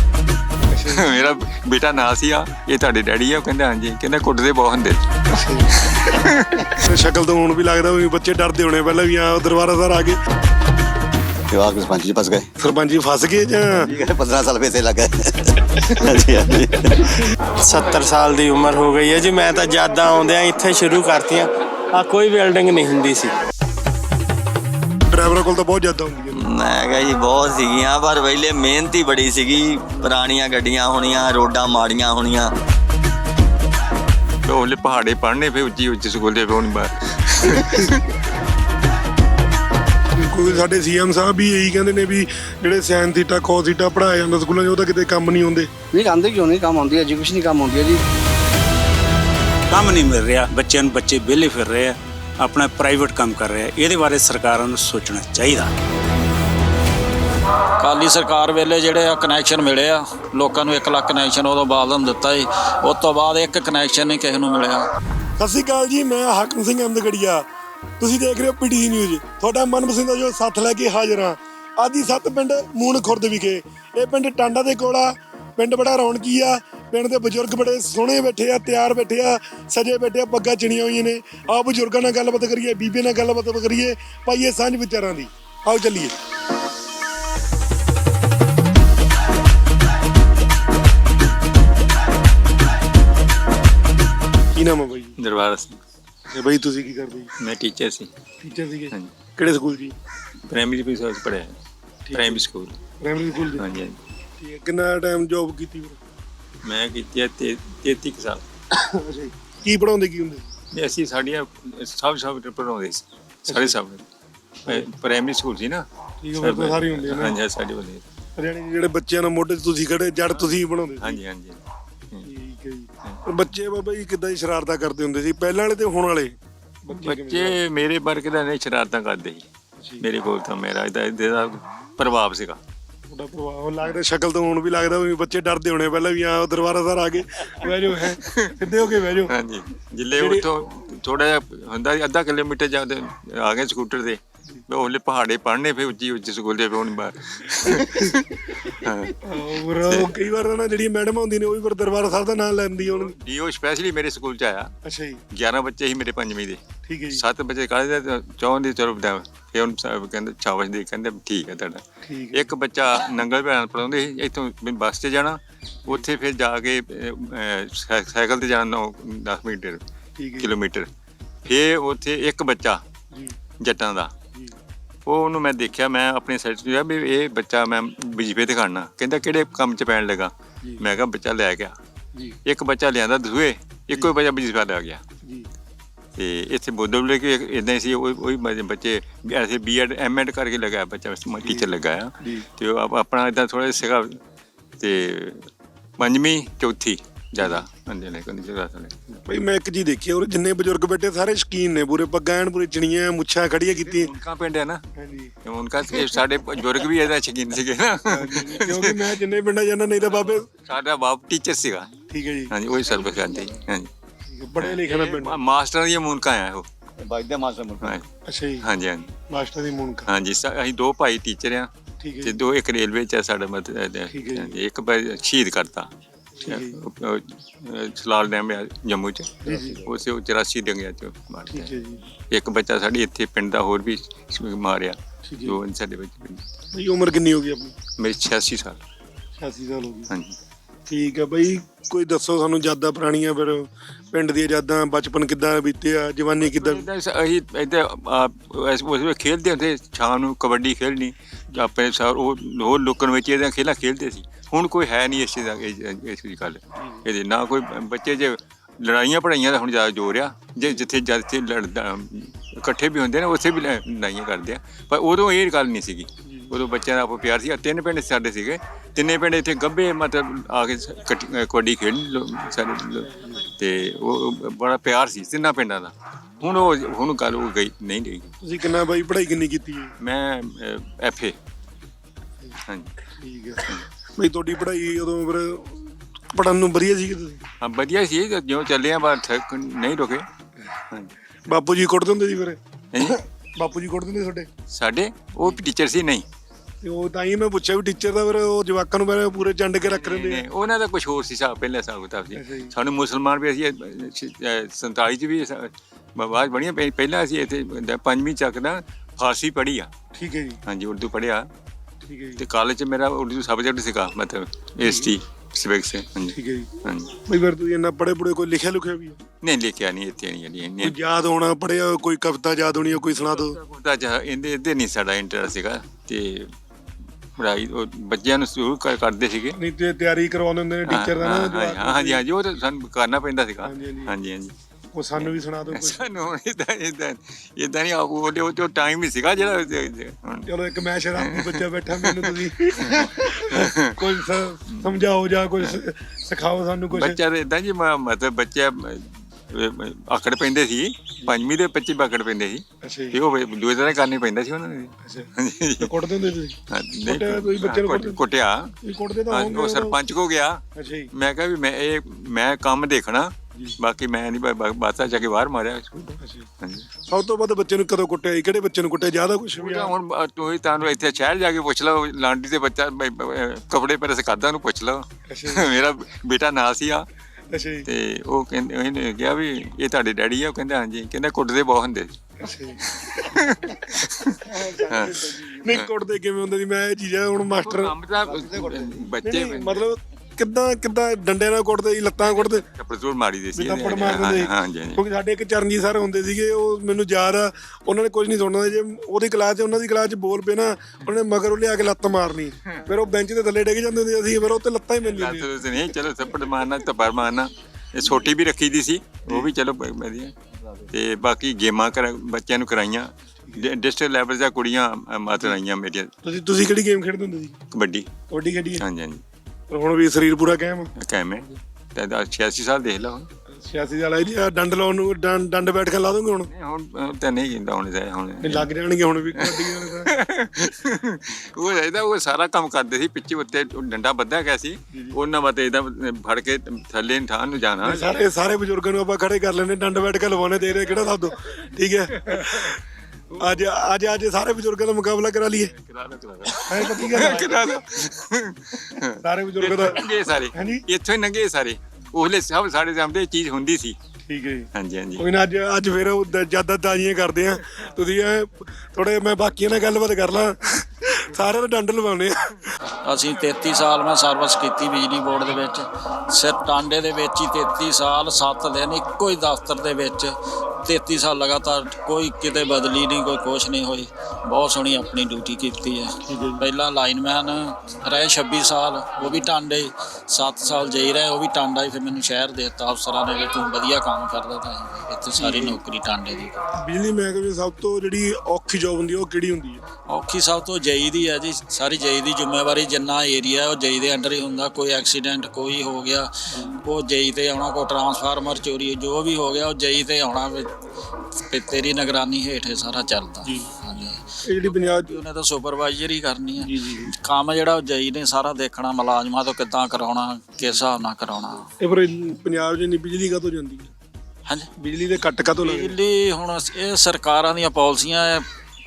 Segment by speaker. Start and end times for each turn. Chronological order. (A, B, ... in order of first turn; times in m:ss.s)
0:00.6-0:01.1 A
0:00.8-0:05.2 B
0:05.3-0:05.9 A
0:05.8-0:06.9 B
0:06.8-0:10.2 A
0:11.5-0:12.5 C
0:12.6-0:13.9 A
0:13.8-0:17.2 C
0:17.6-0:23.3 D
0:25.1-0:26.4 A
0:26.3-0:32.5 E
0:34.4-0:38.1 B
0:40.2-0:45.7 A
0:45.9-0:48.0 F
0:49.7-0:55.7 G
0:57.8-1:04.9 H
1:05.4-1:07.4 A
1:08.0-1:26.1 A
1:34.5-1:35.1 A
1:35.2-1:35.8 B
1:36.3-1:37.3 A
1:37.4-1:38.1 B
1:38.4-1:39.9 A
1:40.5-1:41.6 B
1:42.1-1:42.4 A
1:42.1-1:42.7 B
1:43.0-1:43.6 A
1:43.6-1:44.0 B
1:44.4-1:46.0 A
1:46.6-1:48.4 B
1:48.7-1:50.4 A
1:50.7-1:54.0 B
1:53.5-1:53.7 A
1:54.6-1:55.8 B
1:56.2-1:57.4 A
1:56.4-1:58.0 B
1:58.4-2:01.2 A
2:01.0-2:02.3 B
2:02.2-2:06.3 A
2:06.8-2:07.6 A
2:06.9-2:09.4 B
2:10.0-2:12.6 B
2:13.1-2:19.3 A
2:18.2-2:18.5 B
2:19.3-2:29.2 B
2:20.1-2:20.4 A
2:27.7-2:28.2 A
2:28.8-2:33.1 A
2:29.8-2:30.1 B
2:32.8-2:34.7 B
2:34.8-2:35.2 A
2:35.3-2:49.8 B
2:36.8-2:37.2 A
2:42.0-2:42.5 A
2:50.2-2:50.5 A
2:50.4-2:50.9 B
2:51.4-2:52.8 B
2:53.1-2:53.4 A
2:53.6-2:54.1 B
2:55.0-3:01.8 B
3:02.4-3:05.0 B
3:06.2-3:14.2 B
3:11.4-3:11.7 A
3:12.2-3:12.5 A
3:14.8-3:19.2 B
3:19.3-3:24.1 A
3:23.8-3:24.8 B
3:25.0-3:25.3 A
3:25.4-3:29.1 B
3:28.1-3:30.5 A
3:30.6-3:31.9 B
3:32.1-3:32.5 A
3:32.5-3:33.9 B
3:34.3-3:35.4 A
3:34.6-3:36.6 B
3:37.0-3:38.0 C
3:38.3-3:38.7 A
3:38.6-3:39.1 B
3:39.3-3:40.1 A
3:40.1-3:41.7 B
3:42.0-3:42.4 A
3:42.2-3:45.9 B
3:44.1-3:44.6 A
3:46.4-3:46.8 A
3:46.4-3:51.7 B
3:49.4-3:49.8 A
3:51.5-3:52.0 A
3:52.3-3:56.4 B
3:55.3-3:55.6 A
3:56.7-3:57.7 A
3:58.0-3:58.8 B
3:59.4-4:00.1 A
4:00.1-4:00.4 B
4:00.9-4:06.8 A
4:06.5-4:38.3 B
4:26.2-4:26.6 A
4:38.4-4:39.9 A
4:40.0-4:41.3 B
4:42.7-4:42.9 B
4:43.2-4:47.4 A
4:47.6-4:50.2 B
4:51.5-4:54.5 A
4:52.9-4:53.2 B
4:54.7-4:56.2 B
4:56.8-5:00.4 A
4:59.8-5:09.9 B
5:02.3-5:02.7 A
5:10.1-5:10.6 A
5:10.6-5:11.5 B
5:12.0-5:12.4 A
5:12.4-5:17.2 B
5:14.8-5:15.1 A
5:16.3-5:16.7 A
5:17.3-5:19.2 A
5:19.4-5:20.9 B
5:20.8-5:23.6 A
5:23.4-5:26.5 B
5:27.4-5:29.6 B
5:29.5-5:32.2 A
5:30.9-5:34.5 B
5:33.6-5:34.1 A
5:34.9-5:36.1 A
5:35.2-5:40.5 B
5:40.5-5:47.2 A
5:41.2-5:43.9 B
5:44.7-5:45.0 B
5:46.9-5:55.9 B
5:52.8-5:53.2 A
5:55.0-5:58.2 A
5:56.7-5:58.7 B
5:58.8-6:00.0 A
5:59.3-6:06.9 B
6:00.8-6:01.1 A
6:06.1-6:06.5 A
6:07.1-6:09.9 A
6:09.6-6:17.1 B
6:15.3-6:15.7 A
6:17.5-6:17.9 A
6:17.9-6:22.2 B
6:22.4-6:23.5 A
6:22.8-6:25.9 B
6:24.4-6:27.9 A
6:27.6-6:29.8 B
6:28.5-6:32.6 A
6:32.2-6:35.0 B
6:33.5-6:45.5 A
6:45.0-6:50.3 B
6:50.9-6:56.1 B
6:56.2-6:57.6 A
6:57.7-6:58.1 B
6:58.3-6:58.8 A
6:58.8-6:59.2 B
6:59.7-7:00.9 A
7:01.0-7:03.3 B
7:03.5-7:06.5 A
7:06.5-7:08.7 B
7:08.4-7:10.1 A
7:09.3-7:18.1 B
7:17.8-7:22.8 A
7:22.3-7:22.5 B
7:23.3-7:25.7 A
7:25.7-7:34.0 B
7:26.5-7:27.8 A
7:29.2-7:30.8 A
7:34.2-7:42.6 A
7:34.7-7:35.2 B
7:43.0-8:06.6 H
7:56.2-7:56.6 A
8:05.4-8:05.8 A
8:06.8-8:09.8 A
8:10.1-8:20.7 H
8:16.5-8:16.8 A
8:21.4-8:24.3 H
8:23.4-8:23.7 A
8:24.4-8:25.1 A
8:24.8-8:31.7 H
8:26.6-8:27.1 A
8:31.8-8:33.9 A
8:34.8-8:36.0 A
8:35.6-8:38.4 H